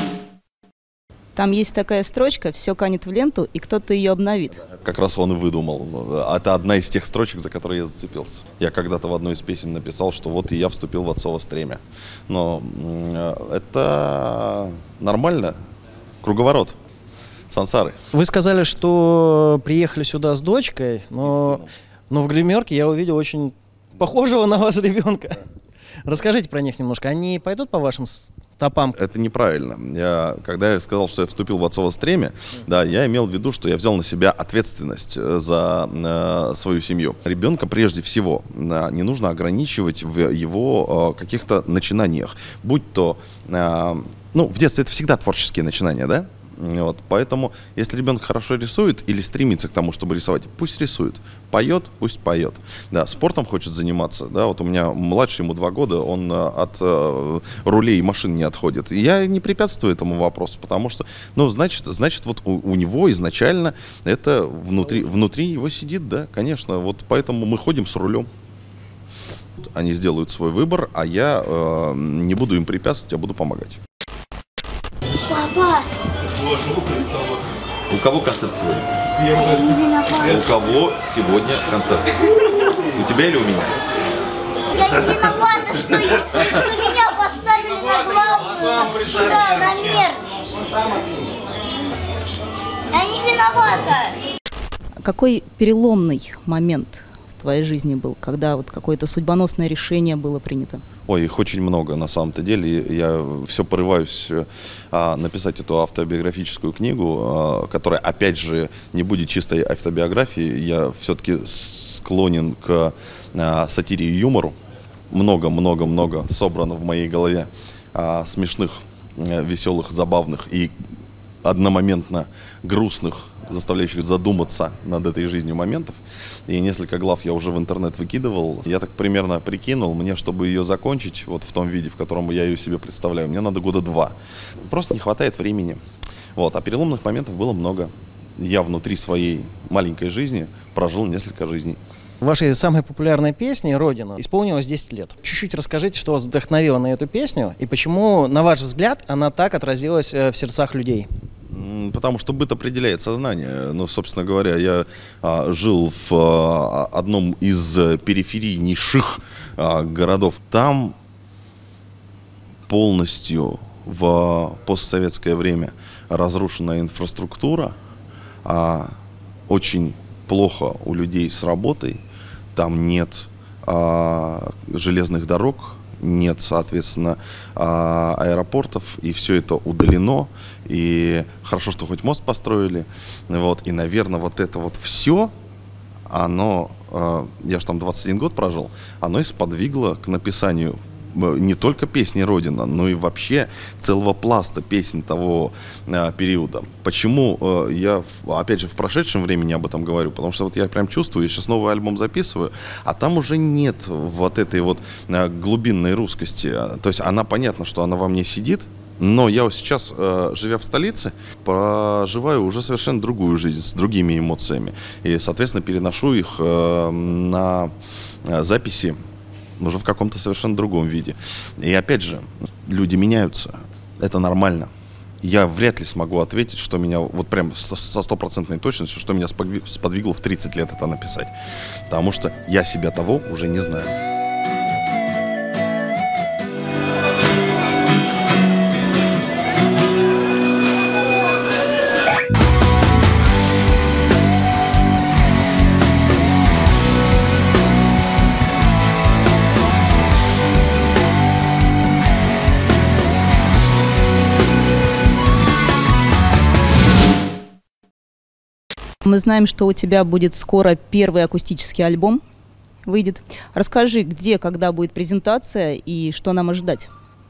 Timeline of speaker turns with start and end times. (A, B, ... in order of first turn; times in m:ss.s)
0:01.4-0:04.6 A
0:04.7-0:15.5 B
0:16.2-0:16.8 B
0:17.5-0:17.9 B
0:18.1-0:25.4 C
0:26.0-0:29.0 C
0:29.0-1:08.3 B
1:09.6-1:13.8 B
1:15.3-1:15.8 D
1:17.9-1:18.8 B
1:19.5-1:20.4 D
1:20.2-1:22.0 B
1:23.0-1:23.7 B
1:24.7-1:30.3 D
1:32.9-1:34.2 D
1:35.0-1:40.8 A
1:41.1-1:54.6 B
1:55.1-2:00.7 B
2:01.4-2:14.1 B
2:14.7-2:15.8 B
2:16.4-2:21.8 B
2:22.2-2:31.1 C
2:31.5-2:41.0 B
2:42.7-2:47.7 B
2:48.4-2:48.9 B
2:49.5-2:52.0 B
2:52.5-3:05.3 B
3:06.1-3:37.7 B
3:38.2-3:39.0 B
3:39.6-3:44.7 B
3:45.2-3:51.3 B
3:51.9-3:53.9 B
4:19.0-4:22.2 A
4:22.8-4:26.9 A